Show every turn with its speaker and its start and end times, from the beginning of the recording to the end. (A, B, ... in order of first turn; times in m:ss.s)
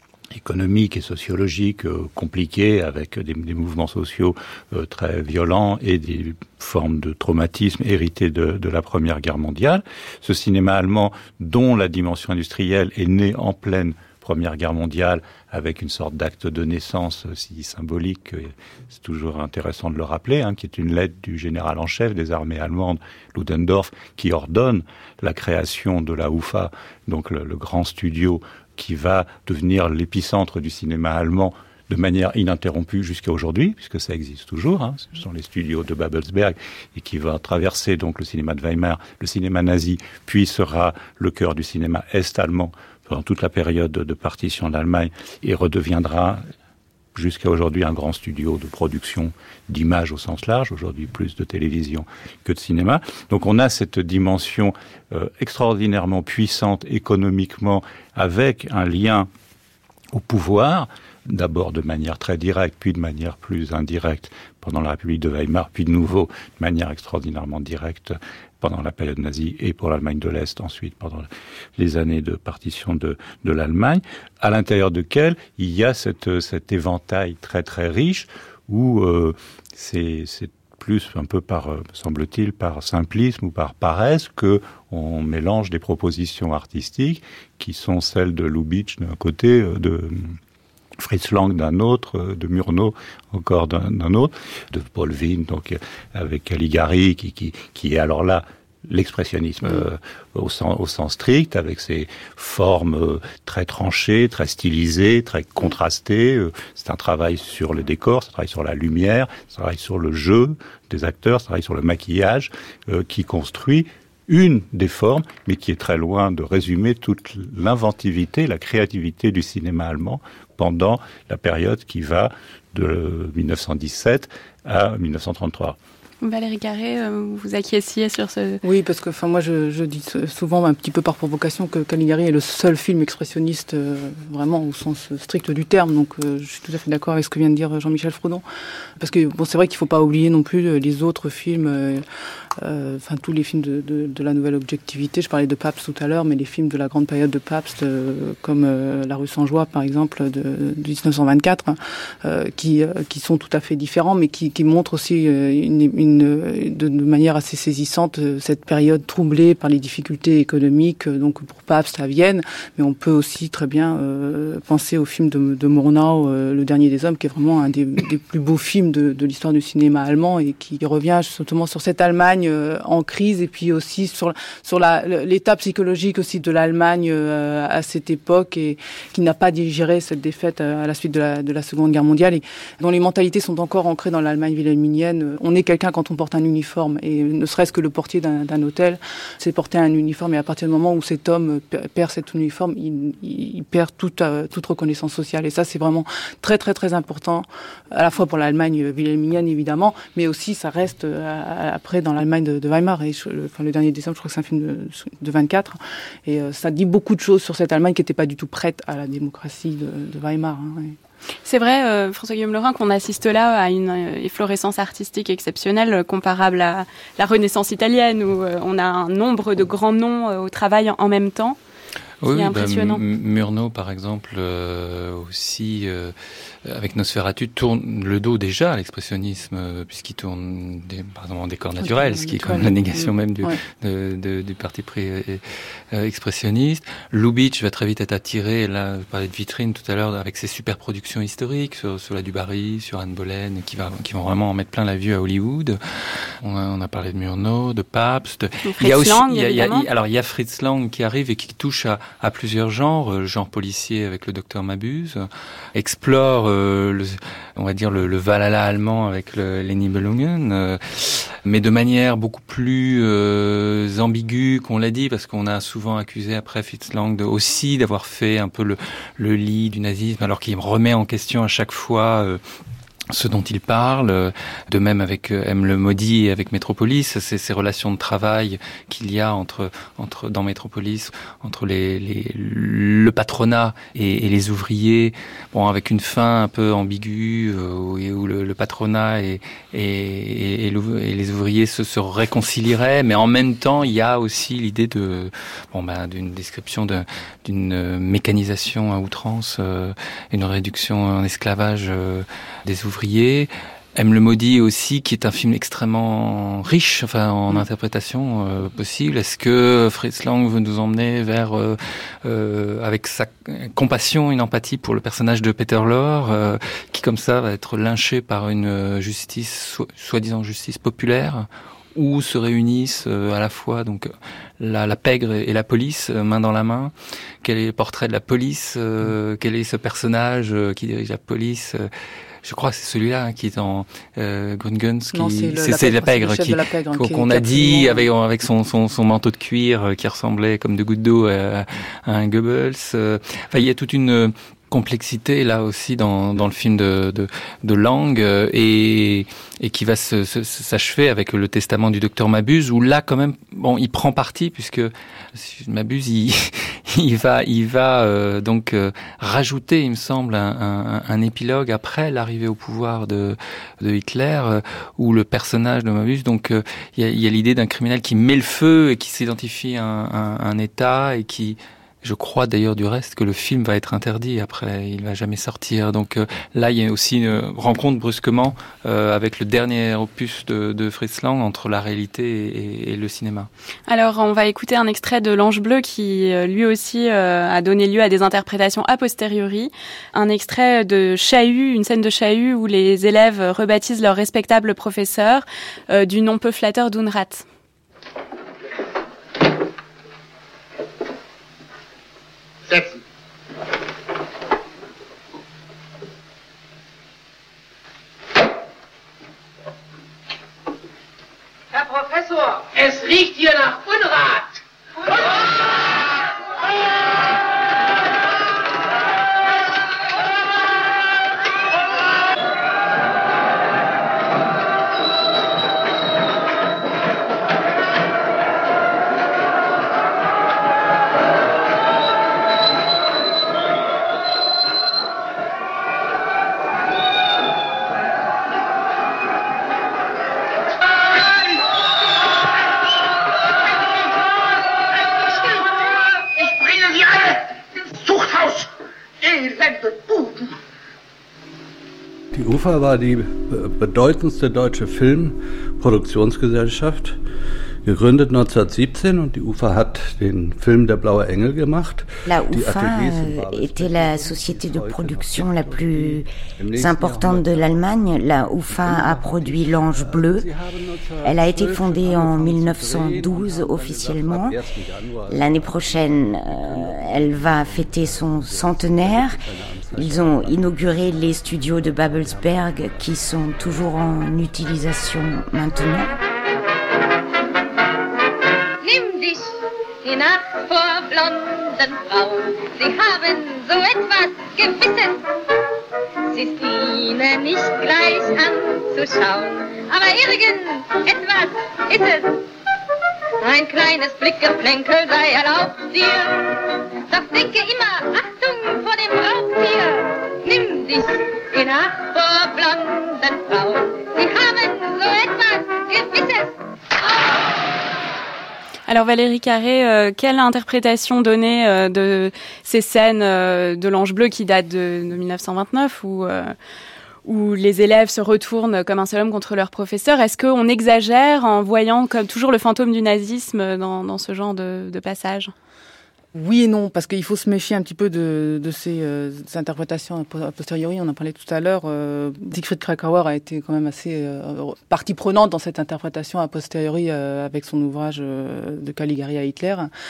0:00.3-0:46.4 A
0:47.2-0:59.3 A
1:00.1-1:30.4 A
1:31.0-2:05.8 A
2:06.2-2:08.6 B
2:08.6-2:18.4 C
2:19.0-2:22.0 C
2:22.6-3:31.0 C
3:31.4-3:41.6 B
3:42.2-4:32.4 D
3:42.3-3:43.0 B
3:51.8-3:53.6 C
4:08.7-4:09.9 B
4:33.1-5:31.9 D
5:32.4-6:23.5 D
5:35.1-5:38.1 C
6:23.9-6:37.5 B
6:42.7-6:43.0 E
6:51.7-6:54.6 E
7:26.4-7:28.7 E
7:29.2-7:30.6 E
7:32.3-7:37.2 F
7:37.8-7:47.9 F
7:42.3-7:50.5 G
7:48.7-8:01.4 F
7:51.2-7:54.6 G
7:55.3-7:59.4 G
7:59.9-8:06.1 G
8:02.0-8:03.0 F
8:08.8-8:15.2 H
8:16.3-8:22.4 H
8:23.4-8:36.5 H
8:38.9-8:46.6 B
8:47.2-8:55.5 B
8:56.4-9:09.9 C